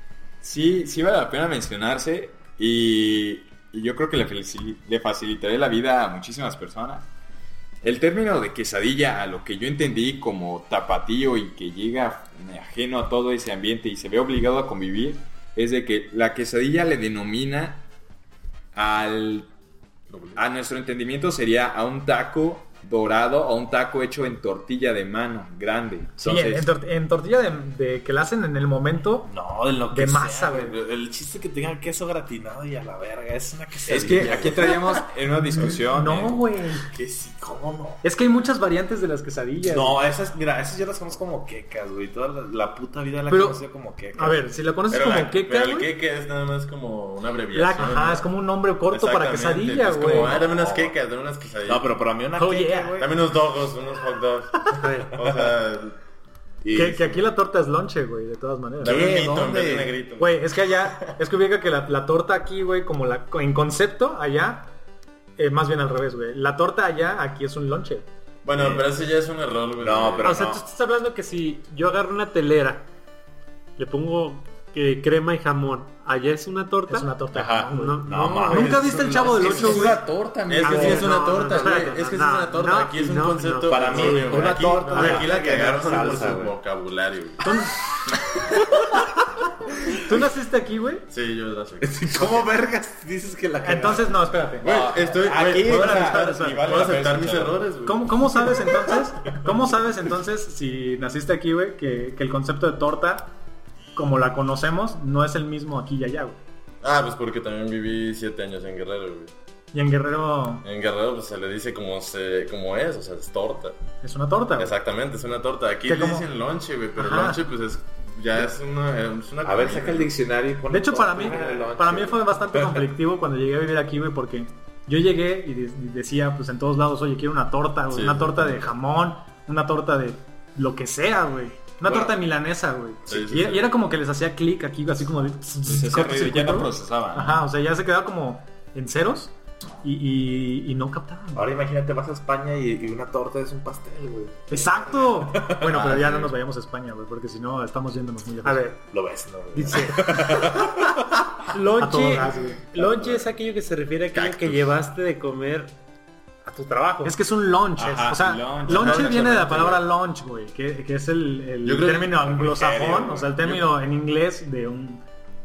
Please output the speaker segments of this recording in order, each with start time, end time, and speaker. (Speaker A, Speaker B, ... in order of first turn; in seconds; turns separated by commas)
Speaker A: 0.4-7.1, Speaker A: 7.8-17.9, Speaker A: 18.7-19.5, Speaker B: 20.1-20.4, Speaker A: 20.4-26.7, Speaker C: 26.2-29.3, Speaker D: 29.3-34.8, Speaker C: 29.9-30.8, Speaker A: 33.9-36.4, Speaker C: 35.6-36.9, Speaker D: 36.9-38.0, Speaker C: 38.0-40.0, Speaker D: 39.6-44.5, Speaker C: 43.3-43.6, Speaker C: 44.1-45.9, Speaker B: 44.9-48.3, Speaker C: 47.5-50.4, Speaker B: 48.9-51.9, Speaker D: 50.3-50.9, Speaker D: 51.6-53.2, Speaker C: 52.4-53.0, Speaker B: 53.0-56.0, Speaker E: 54.7-55.1, Speaker D: 55.2-55.6, Speaker D: 56.6-57.1, Speaker C: 56.7-59.2, Speaker B: 58.8-60.5, Speaker D: 58.8-59.9, Speaker C: 60.2-64.7, Speaker C: 65.4-68.1, Speaker B: 68.5-70.4, Speaker D: 68.5-68.9, Speaker D: 69.8-70.7, Speaker E: 70.2-72.9, Speaker E: 73.8-77.2, Speaker C: 76.9-80.0, Speaker D: 77.3-81.1, Speaker E: 77.7-79.1, Speaker A: 79.2-80.9, Speaker B: 80.5-87.4, Speaker E: 80.6-85.8, Speaker D: 83.7-86.5, Speaker C: 87.4-87.8, Speaker D: 88.3-88.9, Speaker C: 89.9-91.1, Speaker B: 91.1-92.5, Speaker D: 91.8-94.3, Speaker C: 93.6-94.7, Speaker A: 94.6-97.6, Speaker B: 94.6-98.6, Speaker C: 95.4-96.6, Speaker C: 97.8-103.3, Speaker C: 104.0-106.4, Speaker B: 106.8-109.3, Speaker C: 109.7-110.7, Speaker B: 110.6-113.8, Speaker C: 114.0-114.7, Speaker B: 114.6-120.2, Speaker C: 115.9-116.3, Speaker C: 117.0-117.4, Speaker D: 119.4-122.9, Speaker C: 120.7-141.5, Speaker B: 127.9-128.7, Speaker A: 131.9-132.1, Speaker B: 133.1-133.7, Speaker A: 135.7-137.5, Speaker D: 141.3-146.2, Speaker C: 144.5-148.7, Speaker E: 148.4-148.8, Speaker D: 148.9-151.2, Speaker E: 149.6-150.7, Speaker E: 151.5-155.7, Speaker C: 151.8-152.6, Speaker B: 154.1-154.6, Speaker E: 156.4-157.2, Speaker C: 157.0-165.0, Speaker A: 157.8-159.8, Speaker B: 158.7-159.7, Speaker B: 161.6-162.4, Speaker A: 162.4-163.7